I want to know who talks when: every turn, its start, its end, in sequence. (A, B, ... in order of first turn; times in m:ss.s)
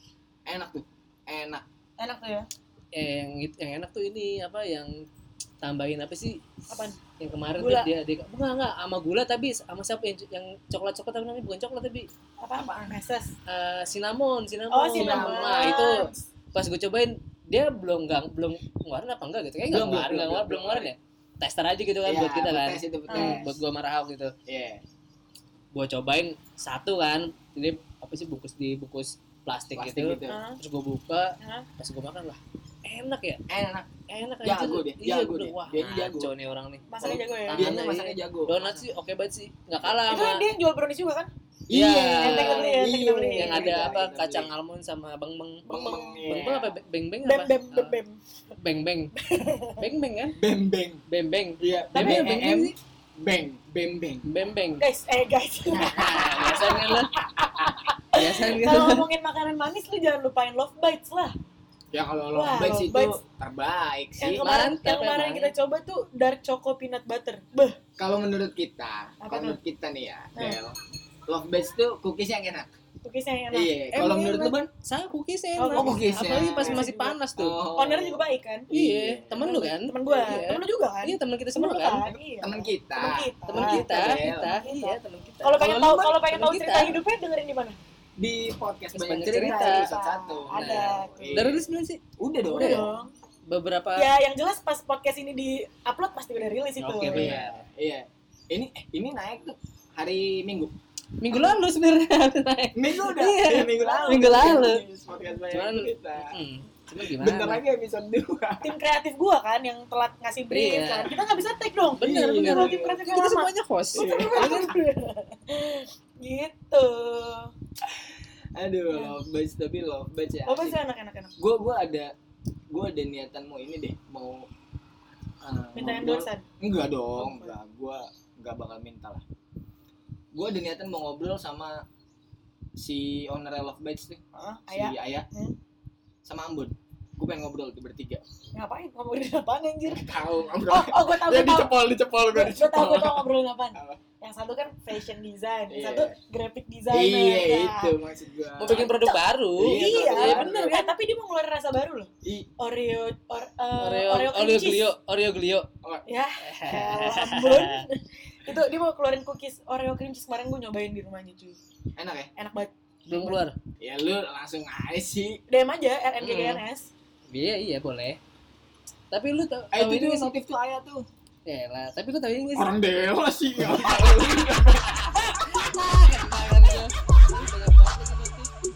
0:00.5-0:01.6 A
0:02.0-0:02.5 B
0:02.9-0:04.9 C
0:05.6-0:06.4 C
0:06.7-0:07.0 B
0:07.1-0:12.1 C
0:07.6-0:07.9 B
0:12.4-0:13.3 B
0:12.6-0:12.9 A
0:13.5-0:24.3 C
0:14.7-0:16.2 B
0:14.9-0:16.0 A
0:19.7-0:20.9 A
0:22.0-0:23.6 A
0:23.1-0:23.4 B
0:24.5-0:24.8 A
0:25.7-0:33.4 C
0:29.8-0:30.4 A
0:30.3-0:30.6 B
0:31.4-0:31.7 B
0:33.5-0:33.9 A
0:34.1-0:40.4 C
0:34.4-0:36.3 A
0:36.9-0:37.7 B
0:37.0-0:38.9 A
0:39.9-0:41.3 B
0:41.7-0:44.5 A
0:41.7-0:45.7 C
0:42.2-0:43.8 B
0:45.7-0:46.7 A
0:45.7-0:46.3 B
0:46.3-0:48.0 C
0:47.2-0:48.2 B
0:48.6-0:49.2 C
0:49.2-0:49.9 B
0:49.8-0:50.4 C
0:50.4-0:51.0 A
0:51.1-0:52.8 C
0:51.6-0:54.3 A
0:52.0-0:52.3 B
0:54.2-0:54.8 C
0:54.8-1:01.3 B
0:55.8-0:57.1 C
0:58.1-0:59.0 C
1:01.9-1:04.5 A
1:02.3-1:03.2 B
1:04.2-1:07.8 B
1:04.2-1:05.5 C
1:08.0-1:12.7 A
1:09.2-1:09.6 B
1:13.0-1:13.7 B
1:13.5-1:14.7 A
1:13.9-1:17.6 C
1:15.6-1:17.2 B
1:15.7-1:16.8 A
1:17.4-1:19.5 A
1:17.8-1:18.7 B
1:18.7-1:22.1 C
1:19.4-1:27.8 B
1:22.4-1:24.6 A
1:23.5-1:27.0 C
1:25.6-1:25.9 A
1:28.2-1:31.6 A
1:29.0-1:29.9 C
1:29.5-1:31.5 B
1:30.5-1:32.0 C
1:32.2-1:33.0 A
1:32.5-1:33.1 B
1:32.5-1:32.9 C
1:33.5-1:34.1 C
1:34.0-1:37.4 B
1:36.8-1:37.6 C
1:37.1-1:40.7 A
1:41.2-1:44.8 C
1:42.8-1:46.4 A
1:43.6-1:44.7 B
1:45.5-1:47.6 C
1:47.0-1:48.8 A
1:48.6-1:57.5 B
1:50.5-1:51.1 C
1:51.9-1:54.7 C
1:52.0-1:53.0 A
1:53.9-1:54.7 A
1:57.9-2:00.8 A
2:00.5-2:01.4 B
2:01.4-2:02.1 A
2:02.7-2:04.5 A
2:05.4-2:09.2 A
2:05.8-2:06.4 B
2:07.2-2:07.6 B
2:10.3-2:11.8 A
2:12.8-2:14.2 A
2:14.4-2:15.6 B
2:14.7-2:15.3 A
2:16.2-2:18.2 A
2:18.6-2:21.7 B
2:19.9-2:24.0 A
2:22.3-2:27.9 B
2:25.7-2:26.2 A
2:26.9-2:29.0 A
2:28.6-2:30.7 C
2:28.8-2:34.9 B
2:29.6-2:30.9 A
2:32.2-2:32.5 A
2:33.8-2:35.7 C
2:36.1-2:41.6 B
2:36.4-2:37.8 C
2:42.0-2:42.3 A
2:42.4-2:43.4 B
2:43.1-2:43.6 C
2:43.8-2:45.4 A
2:45.5-2:46.9 B
2:46.2-2:46.6 C
2:47.3-2:48.2 C
2:49.1-2:50.3 C
2:49.7-2:51.0 A
2:51.5-2:52.8 C
2:52.6-2:55.7 A
2:53.6-2:58.5 C